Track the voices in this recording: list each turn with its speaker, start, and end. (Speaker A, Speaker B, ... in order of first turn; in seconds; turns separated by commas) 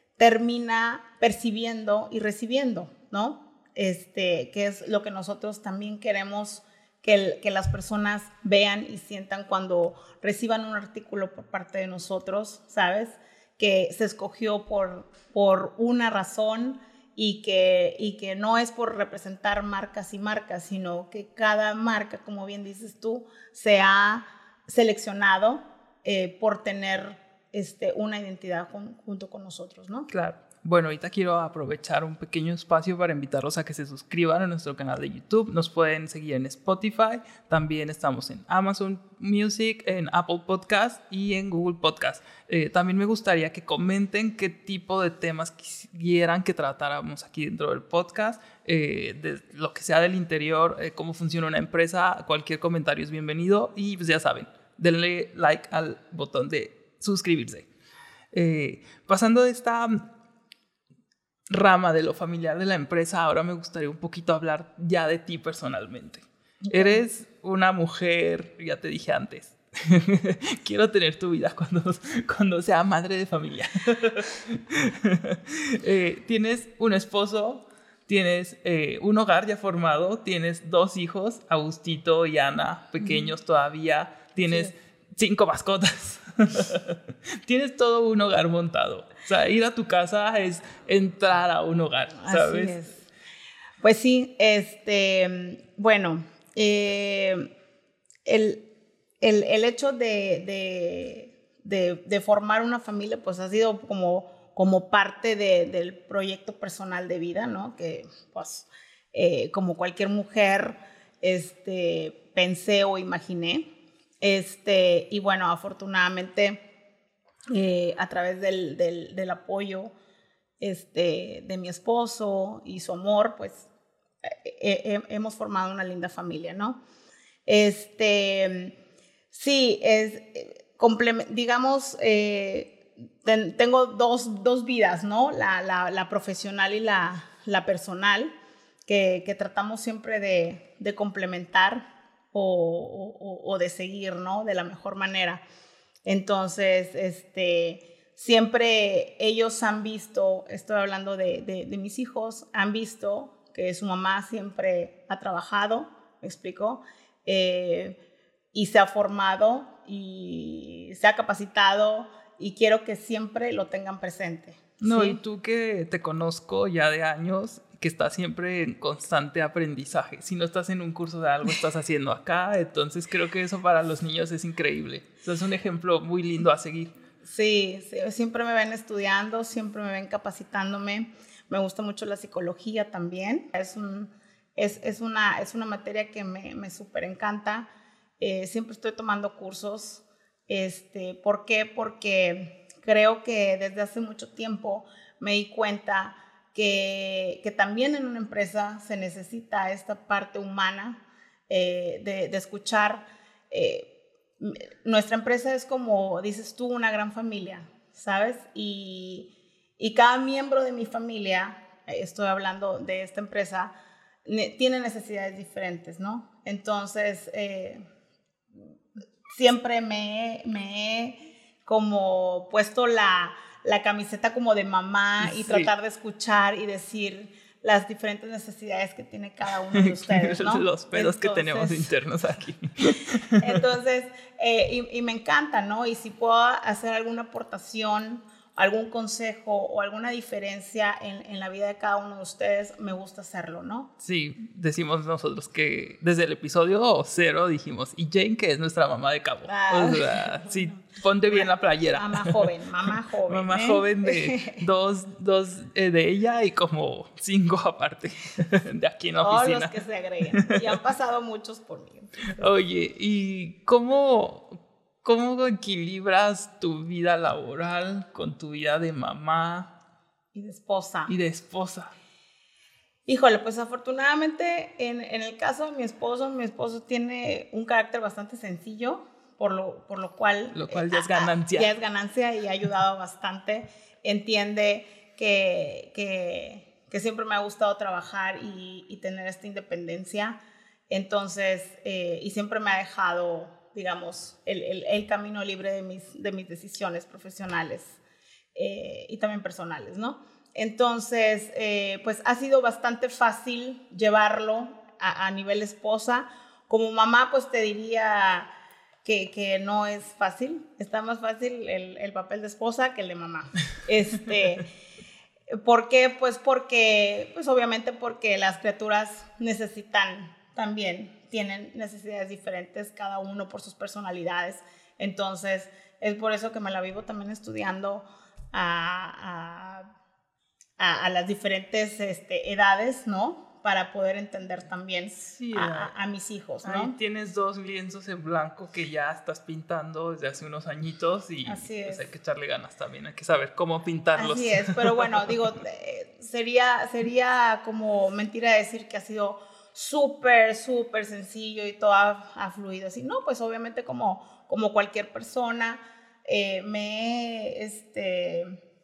Speaker A: 0.2-30.1, Speaker B: 30.1-57.7, Speaker B: 58.3-60.0, Speaker B: 61.5-92.8, Speaker A: 66.7-67.0, Speaker A: 92.2-93.0, Speaker A: 93.8-97.5, Speaker A: 98.2-98.7, Speaker A: 99.2-113.7, Speaker A: 114.2-116.6, Speaker A: 117.5-119.9, Speaker A: 120.6-123.7, Speaker A: 124.2-126.8, Speaker A: 127.5-128.7, Speaker A: 129.3-138.3, Speaker A: 138.8-145.4, Speaker A: 146.0-158.0, Speaker A: 158.5-165.2, Speaker B: 164.8-176.9, Speaker A: 177.2-187.7, Speaker A: 188.2-213.7, Speaker A: 214.2-217.8, Speaker A: 219.3-231.9, Speaker B: 225.2-225.7, Speaker B: 229.7-233.7, Speaker A: 233.4-243.9, Speaker B: 244.0-252.5, Speaker A: 249.4-250.7, Speaker A: 251.3-254.6, Speaker B: 253.3-260.7, Speaker A: 259.2-262.5, Speaker B: 262.4-269.7, Speaker A: 270.3-271.1, Speaker B: 271.1-271.9, Speaker A: 273.1-298.0, Speaker B: 280.5-281.7, Speaker A: 298.5-308.5, Speaker A: 309.0-314.7, Speaker A: 315.5-329.9, Speaker A: 330.8-336.9, Speaker B: 335.2-335.9, Speaker B: 336.6-345.3, Speaker A: 341.4-342.1, Speaker A: 344.1-358.5